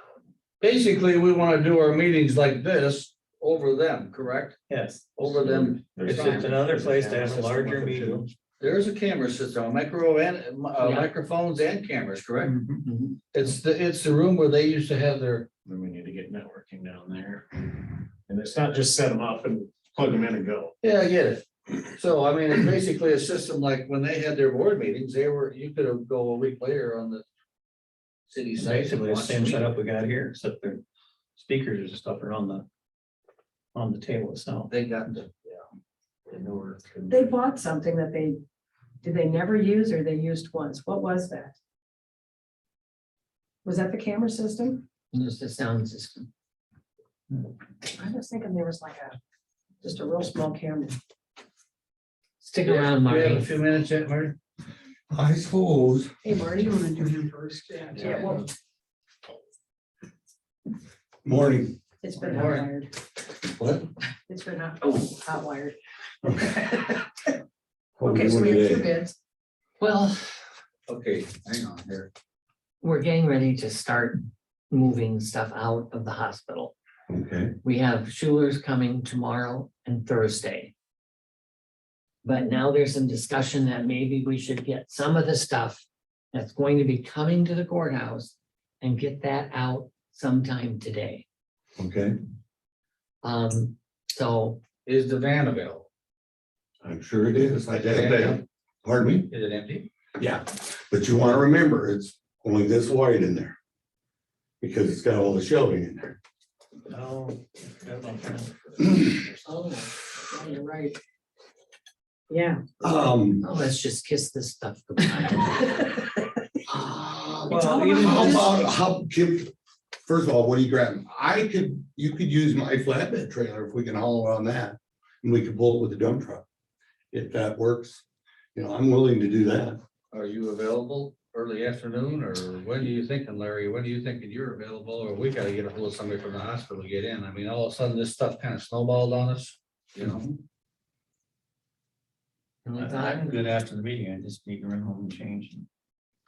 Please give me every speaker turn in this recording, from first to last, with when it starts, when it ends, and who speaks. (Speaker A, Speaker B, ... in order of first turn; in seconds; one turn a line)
Speaker A: 0.6-4.6
Speaker B: 4.7-5.2
Speaker A: 5.2-6.5
Speaker C: 5.2-8.3
Speaker B: 6.0-8.3
Speaker A: 8.6-12.5
Speaker D: 10.8-11.1
Speaker D: 12.8-13.2
Speaker A: 13.3-15.5
Speaker C: 15.6-20.7
Speaker A: 20.8-27.2
Speaker A: 28.3-29.7
Speaker B: 28.6-30.8
Speaker B: 31.4-32.6
Speaker B: 33.7-34.7
Speaker A: 34.7-35.6
Speaker A: 36.3-37.3
Speaker E: 37.1-38.4
Speaker E: 39.0-41.5
Speaker E: 43.6-44.8
Speaker D: 45.1-46.3
Speaker E: 47.9-49.1
Speaker E: 49.8-51.0
Speaker D: 52.4-53.5
Speaker A: 52.6-54.4
Speaker F: 55.1-56.1
Speaker E: 56.2-58.5
Speaker F: 61.2-61.8
Speaker E: 62.0-62.9
Speaker A: 62.3-62.7
Speaker F: 63.6-63.8
Speaker E: 64.3-65.7
Speaker F: 66.2-66.5
Speaker E: 66.4-67.0
Speaker F: 68.0-68.9
Speaker E: 68.0-69.1
Speaker D: 69.8-70.4
Speaker A: 70.9-72.1
Speaker D: 72.8-76.7
Speaker F: 77.1-77.5
Speaker D: 77.6-80.7
Speaker D: 82.2-91.2
Speaker F: 91.8-92.2
Speaker D: 93.2-94.6
Speaker A: 94.8-95.9
Speaker F: 96.8-99.3
Speaker A: 97.8-98.4
Speaker A: 99.3-99.9
Speaker F: 100.2-103.5
Speaker F: 104.6-106.2
Speaker B: 106.9-109.2
Speaker E: 109.5-111.0
Speaker E: 112.3-112.6
Speaker F: 112.8-113.4
Speaker D: 113.4-116.0
Speaker F: 116.7-119.5
Speaker B: 117.5-118.5
Speaker E: 117.5-118.4
Speaker F: 120.0-126.4
Speaker F: 127.1-128.0
Speaker F: 128.5-129.8
Speaker A: 130.1-140.4
Speaker D: 142.6-143.4
Speaker B: 142.7-145.7